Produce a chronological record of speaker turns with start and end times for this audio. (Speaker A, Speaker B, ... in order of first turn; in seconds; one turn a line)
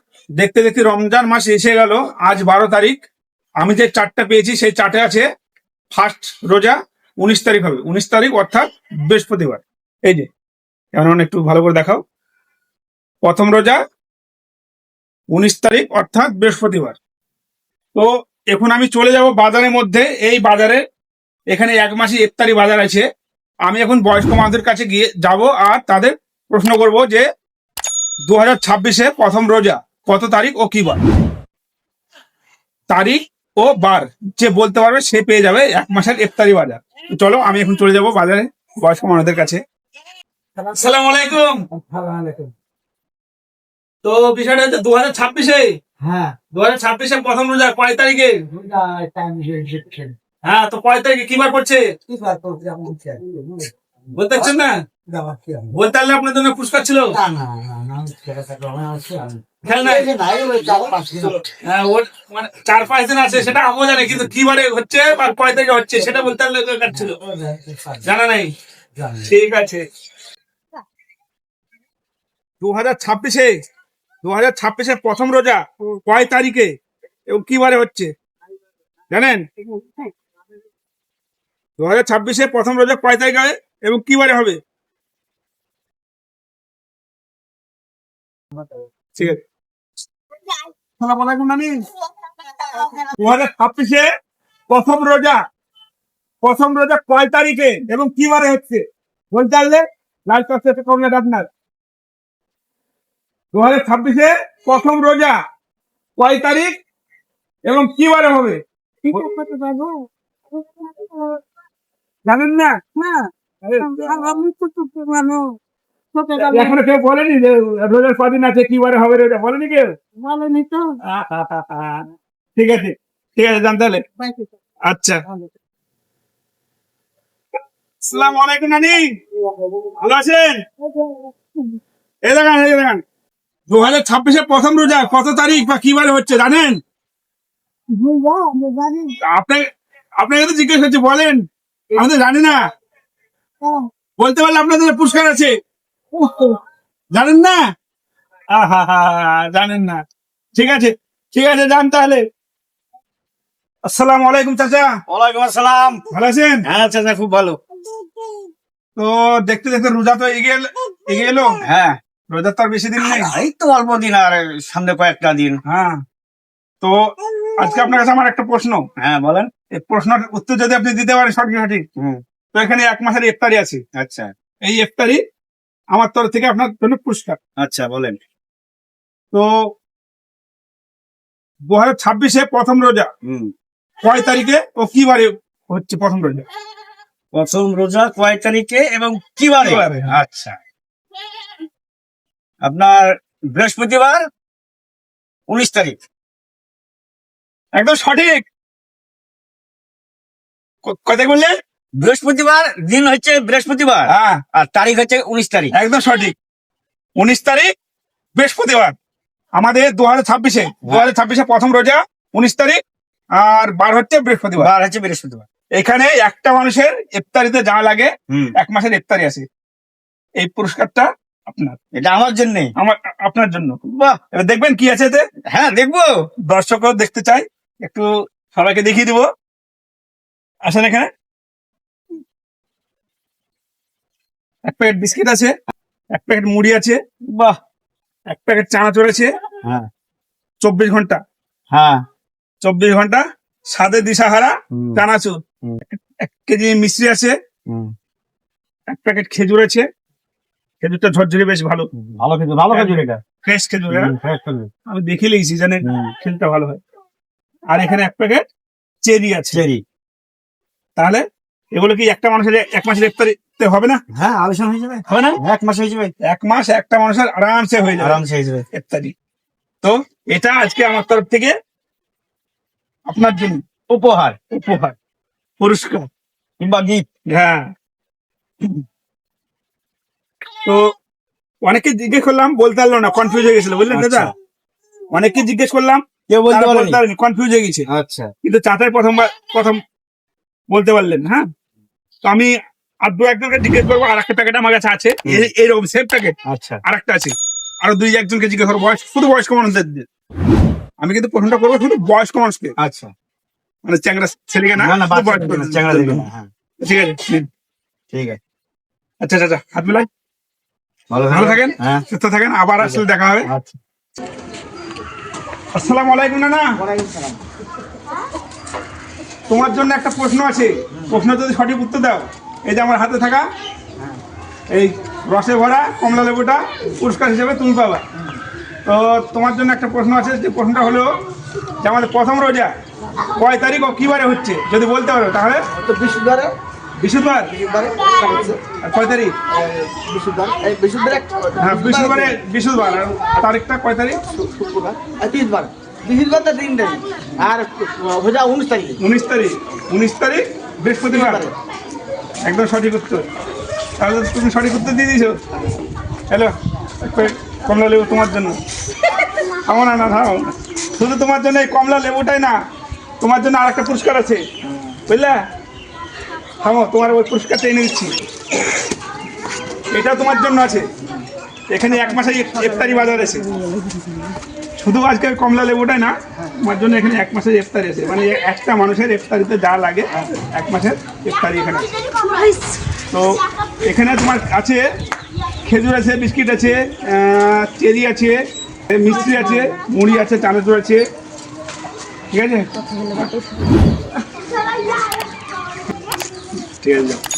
Speaker A: 0.4-3.0
Speaker A: 3.6-5.3
Speaker A: 5.9-10.3
Speaker A: 11.0-12.0
Speaker A: 13.2-13.8
Speaker A: 15.3-17.0
Speaker A: 17.9-20.8
Speaker A: 21.5-23.1
Speaker A: 23.7-27.2
Speaker A: 28.3-31.0
Speaker A: 32.9-39.6
Speaker A: 40.7-41.6
Speaker B: 41.7-42.5
Speaker A: 44.0-45.7
Speaker B: 46.1-46.4
Speaker A: 46.5-48.4
Speaker B: 48.5-50.1
Speaker A: 50.5-51.9
Speaker B: 52.1-53.7
Speaker A: 54.1-54.8
Speaker B: 55.1-55.6
Speaker A: 55.7-57.1
Speaker C: 57.2-59.2
Speaker A: 59.6-60.1
Speaker B: 59.8-61.4
Speaker C: 60.6-61.4
Speaker A: 61.6-67.2
Speaker B: 67.0-67.7
Speaker A: 68.0-68.5
Speaker A: 69.2-69.8
Speaker A: 72.6-73.5
Speaker A: 74.2-76.7
Speaker A: 77.3-78.1
Speaker A: 79.1-79.4
Speaker A: 81.8-84.6
Speaker A: 91.0-91.8
Speaker A: 93.0-94.1
Speaker A: 94.7-95.4
Speaker A: 96.4-101.5
Speaker A: 103.5-105.4
Speaker A: 106.2-106.7
Speaker A: 107.7-109.3
Speaker D: 109.0-110.1
Speaker D: 110.8-111.3
Speaker A: 112.3-113.0
Speaker A: 113.6-114.4
Speaker D: 113.8-115.6
Speaker D: 116.2-116.5
Speaker A: 116.5-119.9
Speaker D: 120.2-121.0
Speaker A: 121.0-122.0
Speaker A: 122.6-124.0
Speaker A: 124.9-125.2
Speaker A: 128.0-129.1
Speaker A: 130.0-130.6
Speaker D: 130.9-131.3
Speaker A: 132.3-133.0
Speaker A: 133.7-136.8
Speaker D: 137.9-139.1
Speaker A: 139.2-139.6
Speaker A: 140.2-141.4
Speaker A: 142.0-142.6
Speaker A: 144.2-145.5
Speaker A: 146.1-146.6
Speaker A: 147.1-147.6
Speaker A: 148.5-150.0
Speaker A: 150.5-152.2
Speaker A: 153.9-154.9
Speaker C: 155.1-156.0
Speaker A: 156.1-156.7
Speaker C: 156.7-157.6
Speaker A: 159.0-161.6
Speaker C: 161.6-162.0
Speaker A: 162.3-163.3
Speaker C: 163.0-165.6
Speaker A: 165.7-166.0
Speaker A: 167.6-168.8
Speaker C: 169.0-169.5
Speaker A: 169.7-171.8
Speaker A: 172.5-173.8
Speaker C: 174.0-174.3
Speaker A: 174.7-175.2
Speaker A: 175.9-177.4
Speaker C: 177.6-178.2
Speaker A: 181.7-183.1
Speaker C: 183.2-183.5
Speaker A: 184.0-186.5
Speaker C: 187.3-190.6
Speaker A: 189.6-190.1
Speaker C: 192.6-194.2
Speaker C: 195.5-196.0
Speaker A: 197.8-198.4
Speaker A: 200.8-201.5
Speaker C: 202.0-205.7
Speaker A: 204.1-204.4
Speaker A: 205.7-206.3
Speaker A: 207.2-207.7
Speaker A: 208.4-209.0
Speaker A: 209.6-212.8
Speaker C: 210.8-211.1
Speaker A: 213.4-214.7
Speaker C: 214.6-215.4
Speaker A: 215.8-219.4
Speaker A: 220.4-221.8
Speaker C: 222.0-222.7
Speaker A: 222.8-223.8
Speaker C: 223.8-224.2
Speaker A: 224.3-225.2
Speaker C: 225.5-226.1
Speaker A: 226.5-229.3
Speaker A: 230.7-231.1
Speaker A: 234.7-235.5
Speaker A: 236.2-237.0
Speaker C: 237.3-237.6
Speaker A: 238.3-239.3
Speaker A: 240.6-241.2
Speaker C: 241.7-242.0
Speaker A: 242.6-245.3
Speaker C: 244.7-245.0
Speaker A: 245.9-247.3
Speaker A: 248.9-249.9
Speaker A: 250.8-251.9
Speaker C: 252.1-253.2
Speaker A: 252.7-254.1
Speaker C: 253.9-254.7
Speaker A: 254.9-256.8
Speaker C: 255.8-256.1
Speaker A: 257.7-258.4
Speaker A: 259.0-259.6
Speaker C: 259.5-259.8
Speaker A: 261.0-261.2
Speaker A: 261.8-264.0
Speaker C: 264.1-266.1
Speaker A: 265.1-265.4
Speaker A: 266.2-268.2
Speaker C: 268.0-268.7
Speaker A: 268.7-269.1
Speaker A: 269.8-271.6
Speaker A: 273.1-273.6
Speaker C: 273.9-274.4
Speaker A: 274.5-274.9
Speaker A: 275.6-276.1
Speaker C: 276.6-277.0
Speaker A: 277.3-277.7
Speaker A: 281.6-284.3
Speaker C: 283.9-284.3
Speaker A: 285.1-287.9
Speaker C: 286.3-287.0
Speaker C: 287.9-288.3
Speaker A: 288.4-289.8
Speaker A: 290.7-291.5
Speaker A: 292.2-292.5
Speaker A: 293.1-296.3
Speaker C: 296.5-296.8
Speaker A: 296.9-300.1
Speaker A: 301.0-302.7
Speaker C: 302.8-303.1
Speaker A: 303.9-306.3
Speaker C: 304.8-306.5
Speaker A: 306.8-307.4
Speaker C: 308.1-308.4
Speaker A: 309.2-310.1
Speaker C: 311.1-312.0
Speaker A: 311.3-313.5
Speaker C: 312.8-313.8
Speaker A: 315.8-316.8
Speaker B: 316.8-317.4
Speaker A: 319.5-323.5
Speaker A: 324.7-328.0
Speaker A: 328.9-331.1
Speaker A: 331.8-332.7
Speaker A: 333.4-335.6
Speaker B: 335.7-336.5
Speaker A: 337.0-337.5
Speaker B: 337.5-338.6
Speaker A: 338.8-339.4
Speaker B: 339.5-342.4
Speaker A: 341.6-344.2
Speaker B: 344.3-349.0
Speaker A: 349.0-351.4
Speaker B: 351.1-351.5
Speaker A: 352.5-353.2
Speaker A: 354.0-355.4
Speaker A: 356.3-358.6
Speaker A: 359.7-362.6
Speaker A: 363.2-364.5
Speaker A: 365.1-365.4
Speaker A: 366.6-368.1
Speaker A: 369.9-370.9
Speaker A: 371.7-373.5
Speaker B: 372.0-372.4
Speaker A: 374.8-381.9
Speaker A: 383.1-384.9
Speaker A: 385.7-391.0
Speaker A: 392.3-393.3
Speaker A: 396.7-397.2